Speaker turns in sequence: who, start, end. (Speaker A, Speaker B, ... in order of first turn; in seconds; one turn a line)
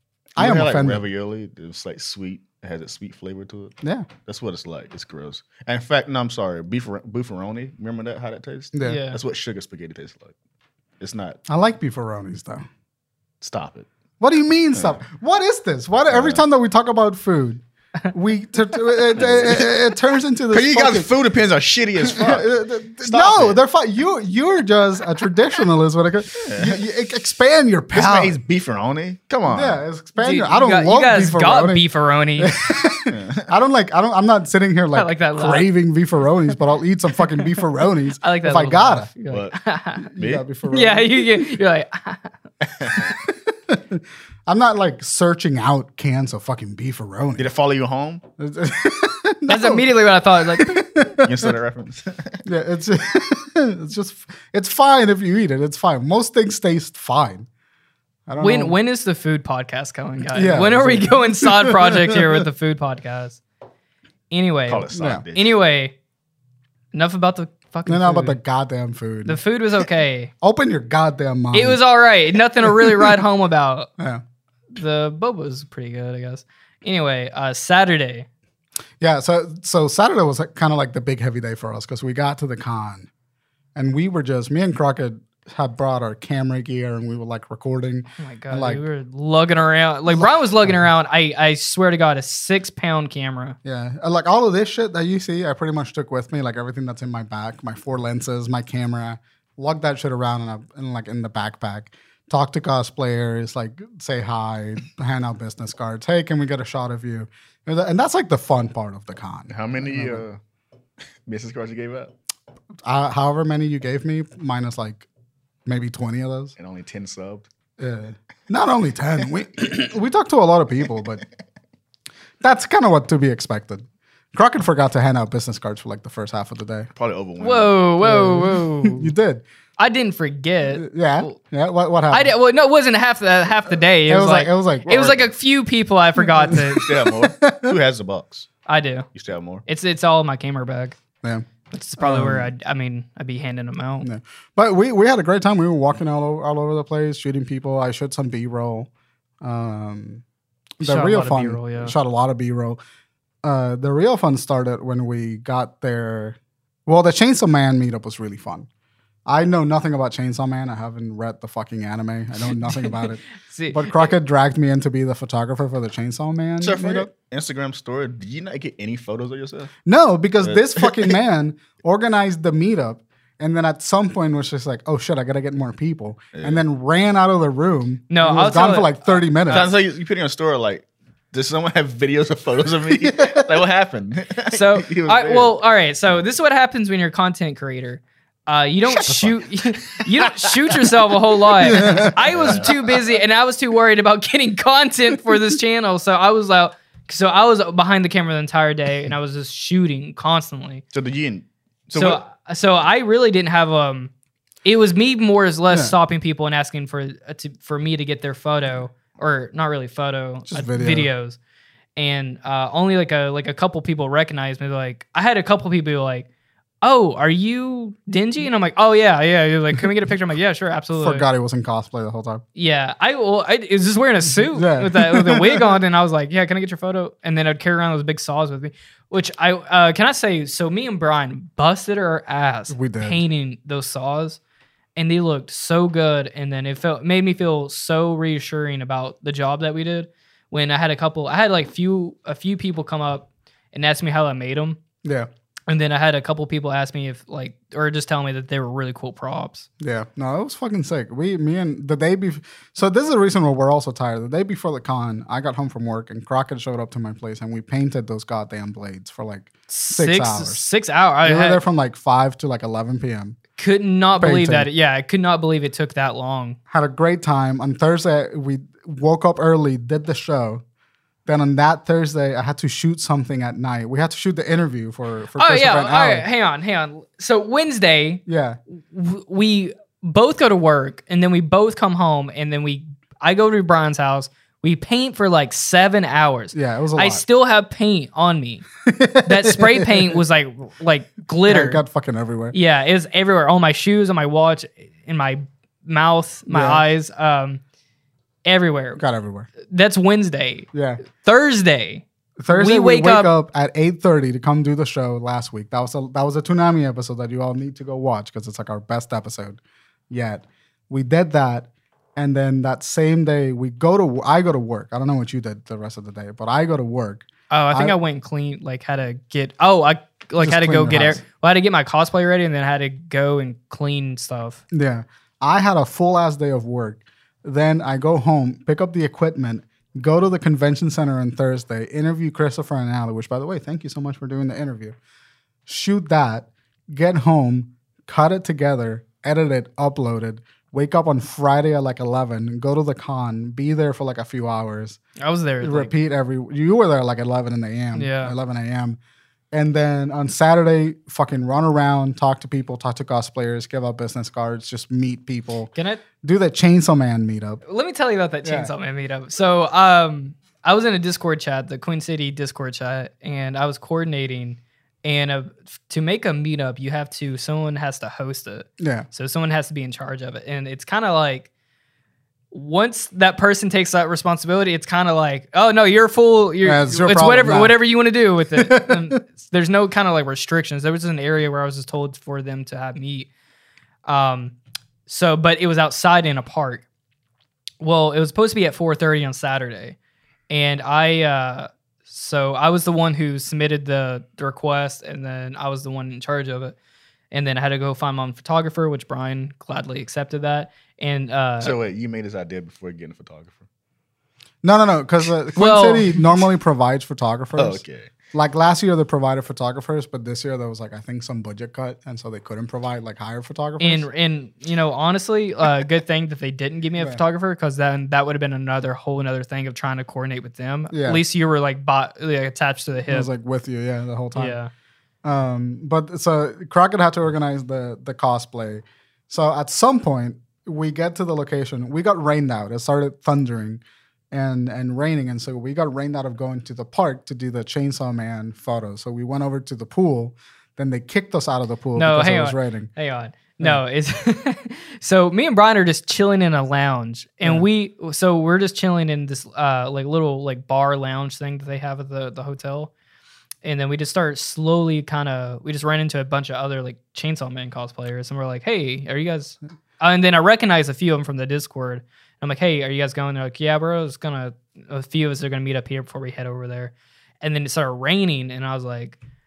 Speaker A: 0.3-3.7
Speaker B: 0.4-1.0
Speaker B: 3.8-4.1
Speaker A: 4.2-10.3
Speaker B: 8.7-9.0
Speaker C: 8.8-9.2
Speaker A: 11.0-11.4
Speaker B: 11.5-12.6
Speaker A: 13.4-13.9
Speaker B: 14.2-21.1
Speaker A: 14.7-15.0
Speaker A: 16.1-16.4
Speaker A: 19.1-19.8
Speaker A: 20.5-23.6
Speaker B: 22.0-28.4
Speaker A: 26.4-26.8
Speaker A: 27.9-29.8
Speaker B: 29.5-39.1
Speaker C: 30.2-32.6
Speaker A: 33.1-33.5
Speaker C: 34.9-35.7
Speaker C: 38.2-40.1
Speaker A: 39.3-39.6
Speaker B: 40.1-41.5
Speaker A: 40.1-40.4
Speaker C: 40.7-42.3
Speaker A: 42.6-43.1
Speaker B: 43.0-47.5
Speaker A: 47.4-48.2
Speaker B: 48.4-51.5
Speaker C: 49.5-50.8
Speaker A: 51.2-52.4
Speaker B: 52.4-57.5
Speaker B: 58.3-58.8
Speaker C: 58.4-63.4
Speaker B: 60.3-62.4
Speaker C: 64.3-65.9
Speaker A: 64.7-65.6
Speaker B: 64.9-65.2
Speaker C: 66.9-68.4
Speaker B: 67.8-69.4
Speaker C: 69.2-70.3
Speaker B: 70.4-71.8
Speaker C: 71.5-73.9
Speaker B: 72.6-73.2
Speaker C: 74.7-78.2
Speaker B: 79.0-83.1
Speaker B: 83.7-88.8
Speaker C: 88.2-93.6
Speaker B: 90.1-90.8
Speaker B: 93.6-110.2
Speaker A: 109.5-110.4
Speaker A: 111.2-112.1
Speaker B: 112.8-115.1
Speaker B: 115.7-116.5
Speaker A: 116.6-117.5
Speaker B: 117.8-121.2
Speaker B: 122.4-126.9
Speaker A: 127.0-127.8
Speaker C: 127.4-129.1
Speaker B: 128.0-129.4
Speaker C: 129.8-131.4
Speaker B: 130.7-132.3
Speaker C: 132.1-136.9
Speaker B: 134.1-135.2
Speaker B: 136.2-137.8
Speaker A: 136.5-138.5
Speaker C: 138.7-139.1
Speaker A: 139.1-139.6
Speaker C: 139.7-140.9
Speaker C: 141.7-144.1
Speaker B: 142.0-142.5
Speaker B: 144.0-148.9
Speaker B: 149.4-150.2
Speaker B: 150.8-152.8
Speaker C: 150.8-151.9
Speaker B: 153.4-158.7
Speaker B: 159.3-167.1
Speaker C: 162.5-164.1
Speaker A: 166.6-169.7
Speaker B: 169.8-179.7
Speaker A: 170.4-171.1
Speaker A: 176.3-176.6
Speaker C: 178.1-179.7
Speaker A: 179.5-185.6
Speaker B: 183.0-183.5
Speaker C: 184.5-200.8
Speaker A: 188.9-190.8
Speaker B: 191.6-192.3
Speaker A: 191.8-192.9
Speaker A: 200.9-202.2
Speaker C: 201.9-204.1
Speaker C: 204.6-211.4
Speaker B: 205.7-205.9
Speaker B: 210.5-211.1
Speaker C: 211.9-216.3
Speaker C: 216.8-221.2
Speaker B: 220.9-222.4
Speaker C: 222.5-234.4
Speaker B: 224.3-225.7
Speaker B: 232.7-233.2
Speaker C: 234.9-244.8
Speaker B: 245.0-245.3
Speaker C: 245.7-249.7
Speaker B: 249.8-260.6
Speaker C: 259.7-261.6
Speaker B: 261.2-263.4
Speaker C: 263.6-266.6
Speaker B: 264.2-264.7
Speaker B: 266.7-270.6
Speaker B: 271.2-276.2
Speaker C: 275.4-278.2
Speaker B: 278.2-278.6
Speaker C: 278.8-288.6
Speaker B: 286.5-287.2
Speaker B: 288.8-290.2
Speaker C: 289.2-291.8
Speaker B: 291.5-292.6
Speaker C: 292.5-297.6
Speaker B: 296.5-296.8
Speaker C: 298.4-299.0
Speaker B: 299.0-299.5
Speaker C: 299.6-303.3
Speaker B: 300.7-301.0
Speaker B: 302.4-318.0
Speaker C: 317.5-324.6
Speaker B: 320.4-321.2
Speaker B: 324.7-334.9
Speaker B: 335.7-345.0
Speaker C: 345.2-345.9
Speaker B: 345.6-349.0
Speaker C: 347.9-348.3
Speaker B: 349.5-357.6
Speaker C: 355.7-356.0
Speaker C: 357.6-371.5
Speaker B: 358.4-358.7
Speaker B: 368.8-369.1
Speaker C: 372.5-383.3
Speaker B: 376.6-377.8
Speaker B: 378.5-379.2
Speaker C: 384.1-384.5
Speaker C: 385.1-386.8
Speaker C: 387.8-389.9
Speaker C: 390.5-396.7
Speaker C: 397.3-401.7
Speaker A: 401.6-403.6
Speaker B: 404.6-407.8
Speaker C: 405.6-406.2
Speaker A: 407.5-408.1
Speaker B: 408.3-414.1
Speaker C: 413.8-423.3
Speaker B: 420.9-421.2
Speaker B: 423.1-424.6
Speaker C: 424.3-424.7
Speaker B: 425.2-442.9
Speaker C: 441.9-452.9
Speaker C: 453.6-469.2